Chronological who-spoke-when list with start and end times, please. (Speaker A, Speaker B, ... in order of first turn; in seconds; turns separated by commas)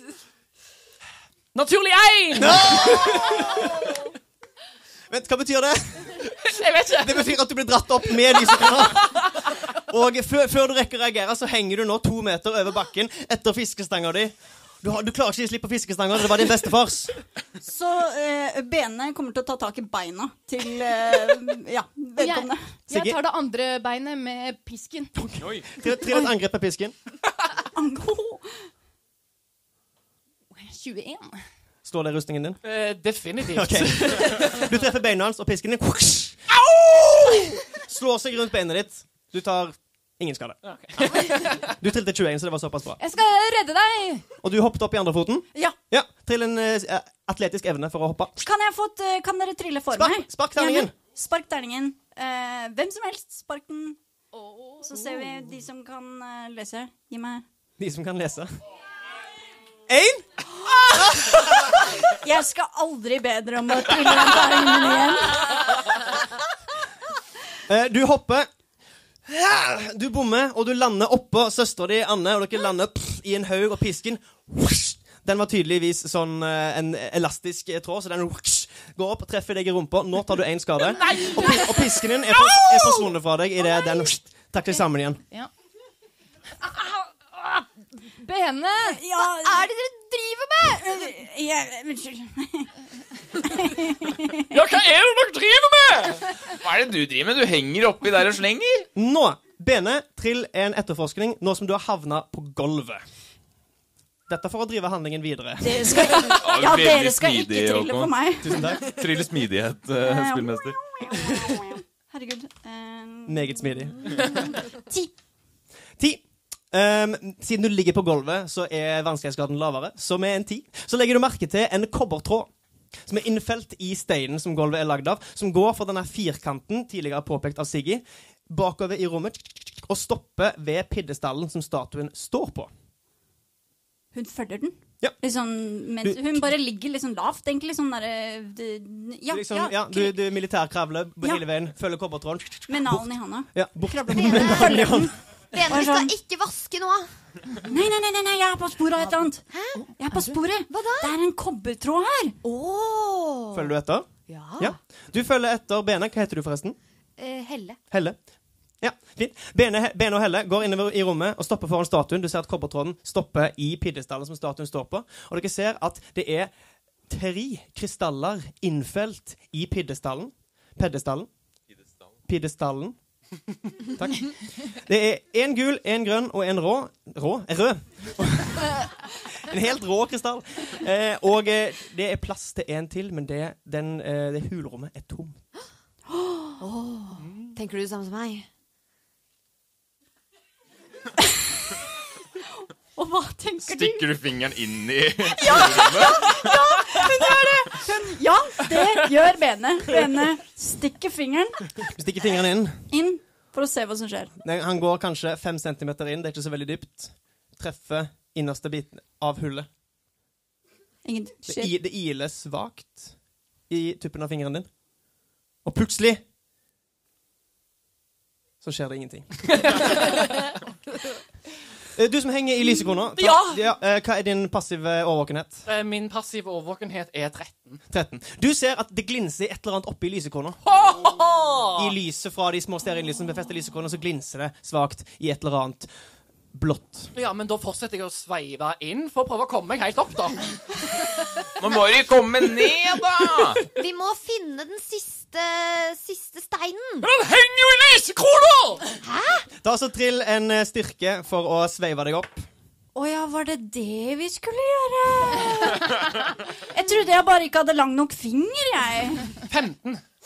Speaker A: 1.5-4.0, Speaker B: 2.4-3.7, Speaker B: 5.1-6.3, Speaker A: 6.3-7.4, Speaker B: 7.0-17.1, Speaker A: 8.4-9.6, Speaker C: 17.6-22.8, Speaker D: 22.2-25.1, Speaker B: 22.9-23.2, Speaker B: 25.1-26.9, Speaker E: 25.4-25.8, Speaker C: 27.7-28.7, Speaker D: 30.5-31.4, Speaker B: 31.8-32.6, Speaker A: 32.6-34.7, Speaker B: 33.5-43.0, Speaker A: 37.0-37.4, Speaker A: 40.6-41.7, Speaker D: 43.0-44.2, Speaker B: 44.4-48.4, Speaker C: 48.4-54.0, Speaker B: 49.9-50.9, Speaker D: 54.3-55.2, Speaker C: 54.8-57.4, Speaker B: 57.8-58.5, Speaker B: 59.9-60.3, Speaker C: 60.7-61.3, Speaker B: 61.1-61.4, Speaker C: 61.8-65.8, Speaker B: 67.7-68.5, Speaker B: 69.3-85.2, Speaker D: 81.0-81.8, Speaker C: 82.5-82.8, Speaker D: 84.7-85.5, Speaker D: 86.6-89.0, Speaker C: 88.8-89.7, Speaker F: 89.4-91.1, Speaker C: 90.6-92.7, Speaker C: 93.3-94.5, Speaker A: 94.5-96.4, Speaker E: 96.5-98.9, Speaker B: 98.9-103.0, Speaker B: 104.3-106.3, Speaker C: 105.6-109.0, Speaker E: 106.3-108.2, Speaker B: 108.4-108.8, Speaker E: 108.8-111.4, Speaker C: 110.0-115.1, Speaker B: 113.3-114.3, Speaker B: 116.0-122.5, Speaker B: 123.0-132.7, Speaker C: 134.1-140.2, Speaker B: 136.0-136.5, Speaker B: 139.3-145.1, Speaker C: 142.7-146.1, Speaker F: 144.1-144.9, Speaker F: 145.5-147.7, Speaker C: 147.6-152.3, Speaker F: 149.0-151.1, Speaker F: 152.4-153.7, Speaker B: 153.5-156.8, Speaker F: 154.3-154.8, Speaker F: 157.2-157.8, Speaker B: 157.9-158.2, Speaker B: 158.8-166.5, Speaker B: 167.1-171.3, Speaker B: 172.3-173.0, Speaker B: 173.9-185.4, Speaker F: 186.6-188.5, Speaker C: 192.9-194.1, Speaker E: 193.6-196.5, Speaker C: 195.4-201.8, Speaker F: 195.5-196.2, Speaker F: 197.0-197.5, Speaker B: 201.9-202.8, Speaker C: 202.9-204.3, Speaker B: 204.4-209.7, Speaker C: 211.0-211.8, Speaker B: 211.4-213.2, Speaker B: 213.7-214.7, Speaker B: 215.6-216.2, Speaker B: 218.6-220.2, Speaker A: 219.5-220.5, Speaker B: 221.9-225.7, Speaker A: 223.2-223.7, Speaker A: 225.7-227.8, Speaker B: 227.9-230.6, Speaker A: 230.6-231.9, Speaker B: 231.8-235.9, Speaker B: 236.5-237.1, Speaker A: 237.1-240.8, Speaker E: 241.6-243.6, Speaker F: 243.7-247.1, Speaker A: 247.0-248.8, Speaker F: 249.0-249.5, Speaker B: 249.6-252.5, Speaker C: 252.9-259.3, Speaker A: 259.4-260.0